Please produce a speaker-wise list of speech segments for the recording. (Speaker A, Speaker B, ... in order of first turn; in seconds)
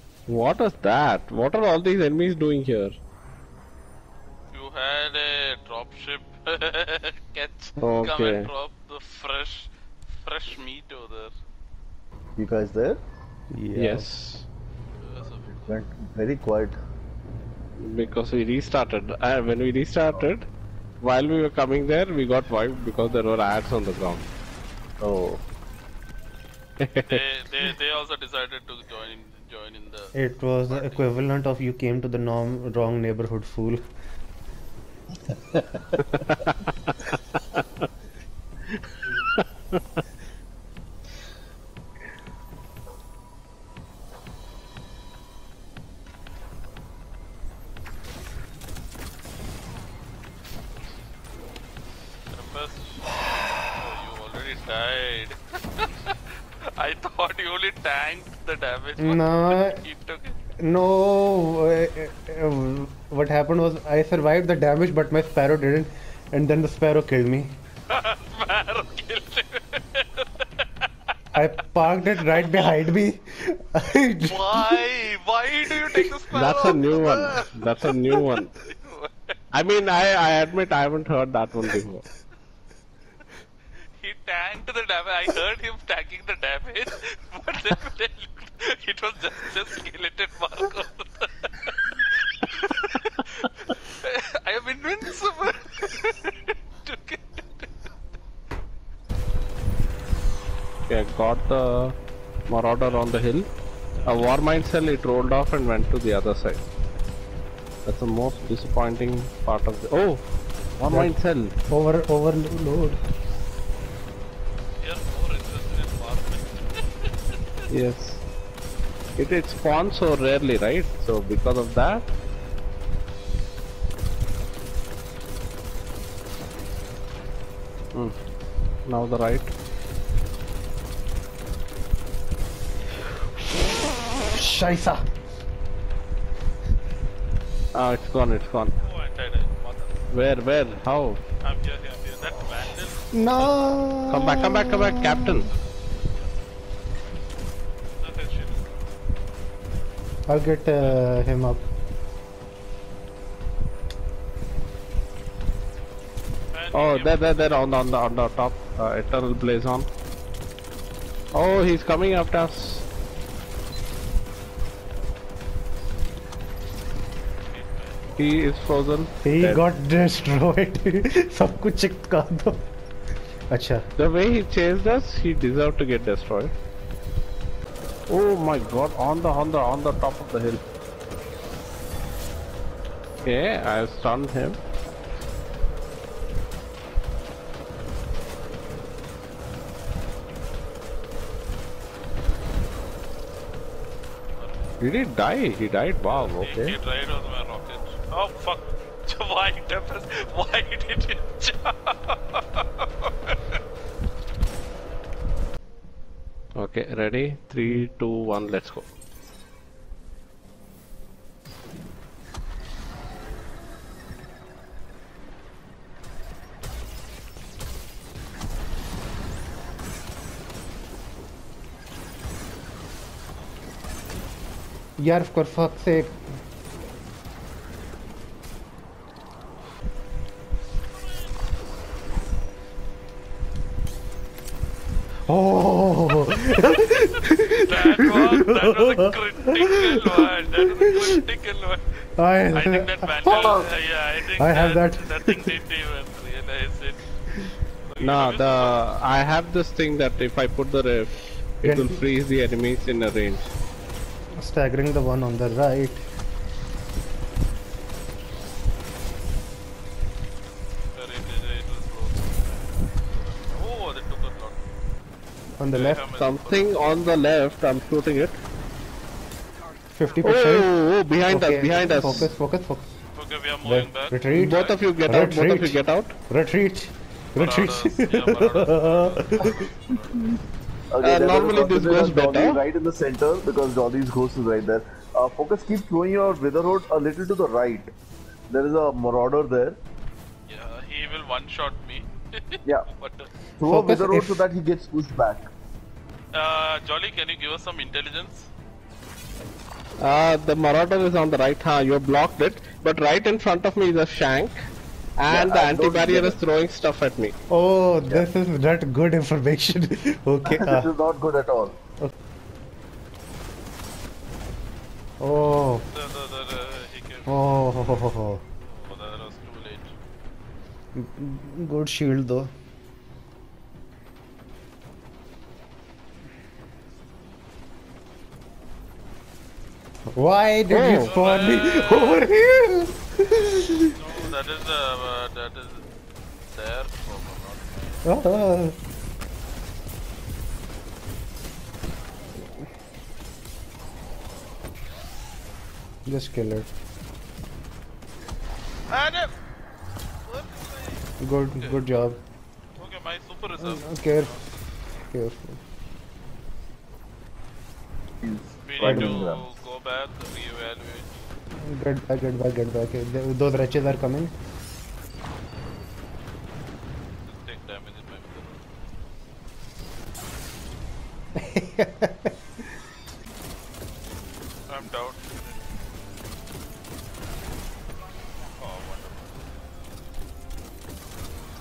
Speaker A: 0.3-3.0, 7.8-8.5, 13.8-14.4, 17.8-20.5, 21.0-24.2, 26.8-27.2, 36.0-37.8, 76.3-78.5, 79.5-82.0, 100.9-101.9, 102.5-103.5, 104.0-106.6, 107.8-110.2, 110.8-111.5, 117.7-118.2, 119.2-122.1, 128.9-129.5, 137.7-138.7, 140.1-141.2, 144.1-145.5, 156.7-159.9, 161.3-162.8, 168.2-169.6, 174.0-176.5, 178.1-180.6, 183.2-184.6, 194.8-196.7, 206.6-208.9, 248.0-253.5, 266.1-268.4, 270.2-272.3, 274.4-276.1, 281.0-282.6, 300.0-304.6, 305.2-307.3, 330.7-331.1
Speaker B: 4.5-11.3, 15.0-15.7, 27.0-30.1, 30.7-31.0, 52.3-60.4, 67.9-70.0, 74.3-77.5, 78.1-79.3, 84.0-91.7, 92.5-97.7, 114.8-116.9, 138.7-140.1, 141.4-143.6, 145.3-146.3, 148.0-148.8, 156.5-157.2, 167.5-168.0, 194.3-194.7, 196.1-203.3, 237.7-247.1, 247.9-248.8, 260.9-264.6, 265.7-267.0, 273.1-274.8, 277.4-280.3, 290.5-293.3, 296.3-298.5, 315.9-317.4, 318.6-319.9, 331.1-332.3, 333.9-335.9, 336.5-338.0, 348.9-349.3, 350.3-351.8, 352.8-354.4, 358.6-361.1, 367.2-368.6, 374.7-375.6, 378.6-379.4
Speaker C: 12.4-13.0, 15.5-16.8, 25.0-25.4, 280.9-287.9, 288.5-289.8, 293.6-295.5, 305.3-306.4, 310.5-311.8, 358.2-359.4
Speaker D: 13.5-14.1, 30.1-33.8, 59.0-59.8, 60.6-67.5, 71.3-74.8, 110.9-111.1, 111.7-113.0, 133.5-135.0, 143.1-145.5, 150.3-151.7, 169.2-172.6, 173.5-173.8, 225.0-226.2, 235.3-239.7, 242.2-243.7, 244.3-245.6, 251.6-252.0, 254.4-256.0, 265.6-266.0, 269.9-270.7, 271.3-272.9, 273.6-279.6, 293.6-294.4, 307.5-310.9, 315.2-315.9, 317.2-318.4, 320.9-322.5, 330.1-333.9, 338.0-338.7, 346.1-346.7, 351.2-352.2, 353.6-354.3, 355.0-355.6, 358.8-359.3, 361.6-364.3, 371.4-372.3